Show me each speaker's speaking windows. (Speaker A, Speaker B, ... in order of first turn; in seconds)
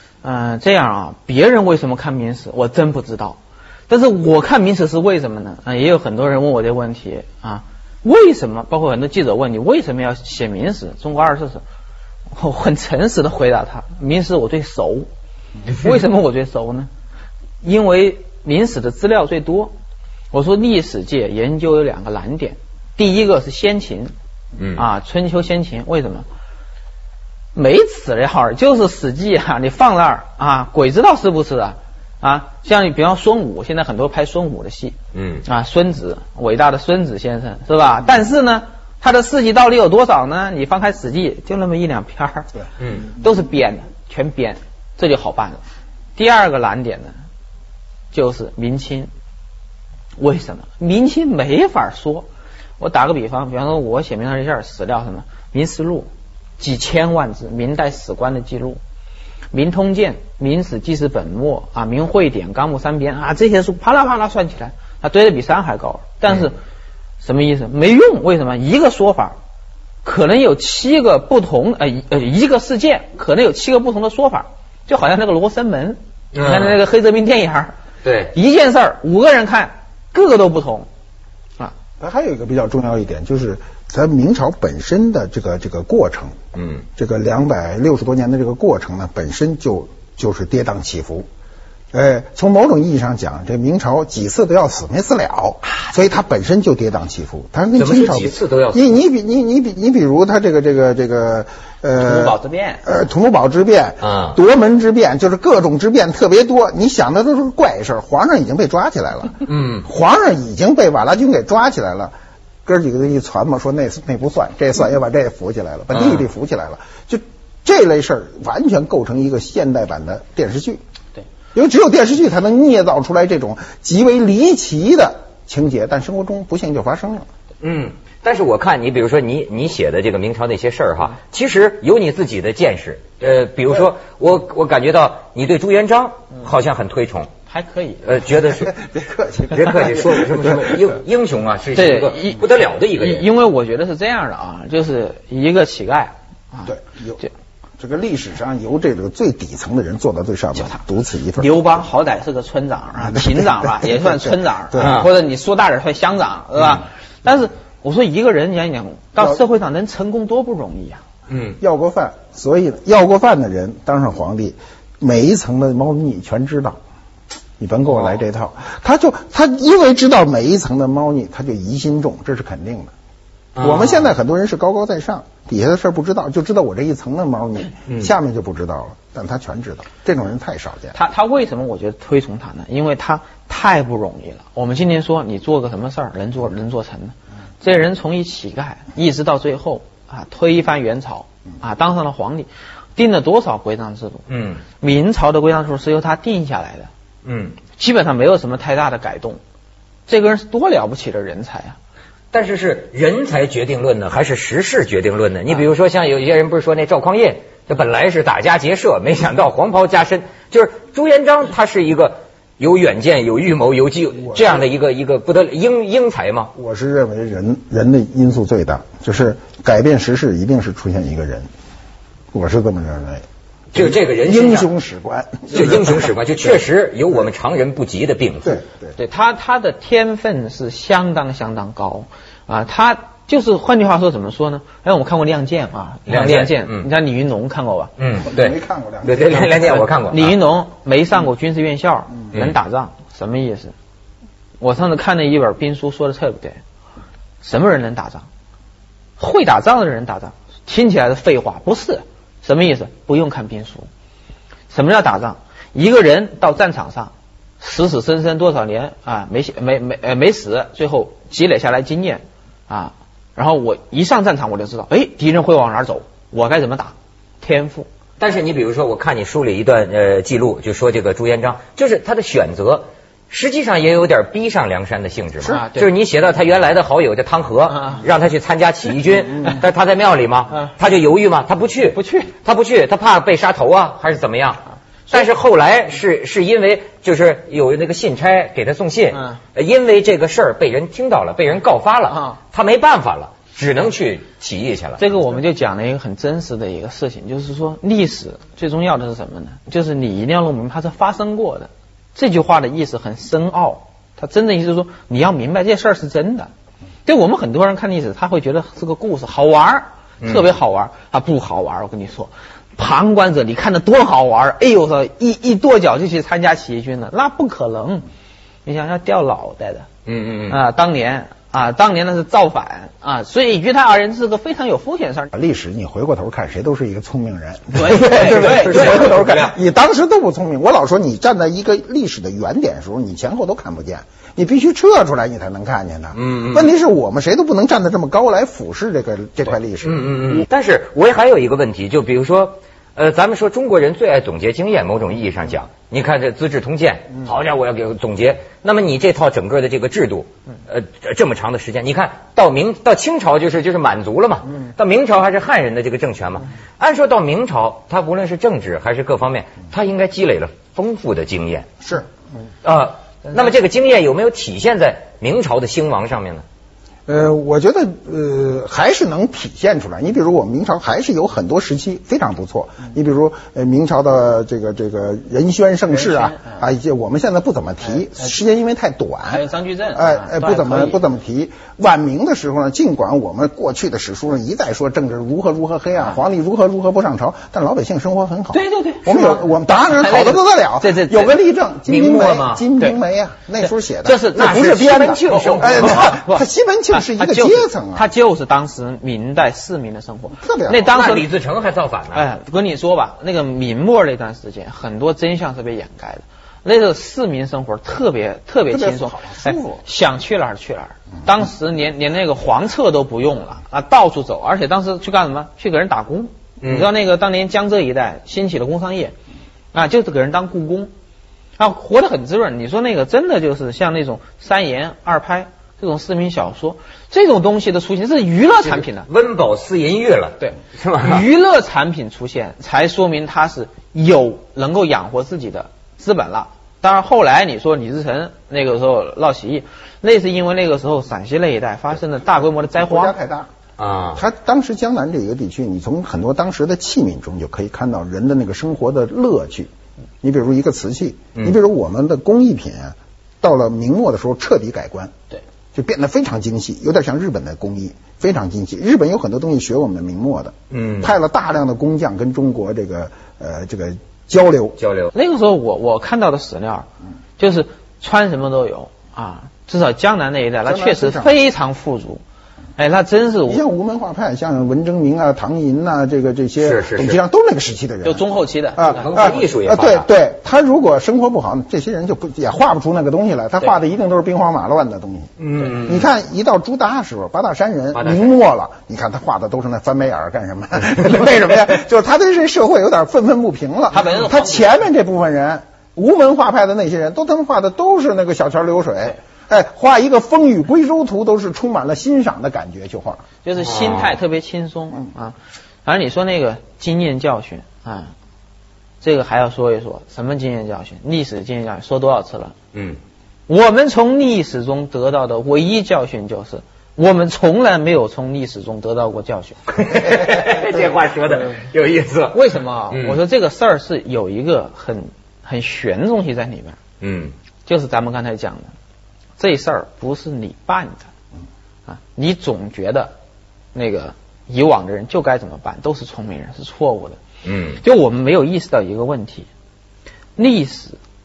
Speaker A: 0.2-11.6, 12.3-15.1, 15.7-16.9, 17.6-19.7, 20.3-24.1, 24.8-26.3, 27.6-42.5, 43.1-45.6, 46.2-47.1, 48.1-49.1, 50.2-52.3, 52.8-58.8, 59.5-66.6, 67.2-69.4, 70.0-77.7, 78.3-80.9, 102.0-102.9, 137.5-138.1, 141.8-147.3, 151.4-161.0, 180.9-196.9, 197.8-199.4, 200.1-201.8, 229.0-237.9, 239.4-243.7, 244.6-246.6, 247.4-248.3, 249.2-253.9, 254.7-267.9, 275.4-275.9, 277.7-278.0, 281.9-282.3, 289.1-289.4, 292.1-292.4, 295.0-306.5, 307.1-318.1, 318.6-319.9, 320.5-325.3, 327.7-329.2, 375.9-376.6, 379.3-381.0, 388.5-391.4, 393.6-401.3, 402.1-419.1, 419.7-420.9, 421.6-429.1, 430.4-443.1, 465.1-472.2, 472.8-473.6, 478.0-479.4, 493.9-494.7, 503.4-508.1, 509.0-512.6, 513.5-519.6, 522.3-526.8, 527.7-528.7, 529.4-531.1, 531.9-533.1, 533.8-537.2, 537.8-539.5, 540.4-541.0
Speaker B: 24.6-24.8, 35.1-35.5, 42.8-43.1, 76.3-76.8, 78.0-78.3, 86.5-86.8, 97.8-99.0, 104.0-104.4, 109.5-109.8, 115.9-116.2, 127.6-137.3, 138.0-138.7, 139.5-143.3, 154.8-155.1, 161.3-161.6, 173.6-174.1, 194.3-194.6, 197.2-197.6, 202.3-216.5, 223.7-224.7, 225.5-228.6, 236.1-236.9, 238.0-240.4, 242.3-242.6, 268.2-295.0, 310.2-310.5, 320.1-320.6, 328.0-329.6, 336.1-336.7, 339.8-361.7, 362.6-366.4, 391.9-392.7, 394.3-396.1, 400.8-402.3, 416.6-416.9, 428.6-431.3, 443.8-444.2, 460.7-461.1, 464.8-465.1, 476.6-477.2, 478.9-480.1, 485.4-486.1, 487.9-488.3, 503.6-504.1, 512.7-513.0, 519.7-523.2, 527.0-527.3, 537.4-537.8
Speaker C: 82.0-86.4, 87.0-91.3, 91.9-112.1, 112.7-120.8, 121.5-127.3, 138.5-140.9, 146.7-147.2, 147.8-151.5, 153.0-155.0, 161.6-166.8, 167.6-172.9, 173.6-181.0, 216.6-221.5, 222.3-226.6, 228.4-228.9, 238.2-239.4, 325.3-340.4, 367.1-398.1, 400.4-401.0, 408.7-409.8, 442.7-443.5, 444.1-449.7, 450.2-455.1, 455.7-464.8, 470.7-471.3, 473.5-478.2, 478.8-503.2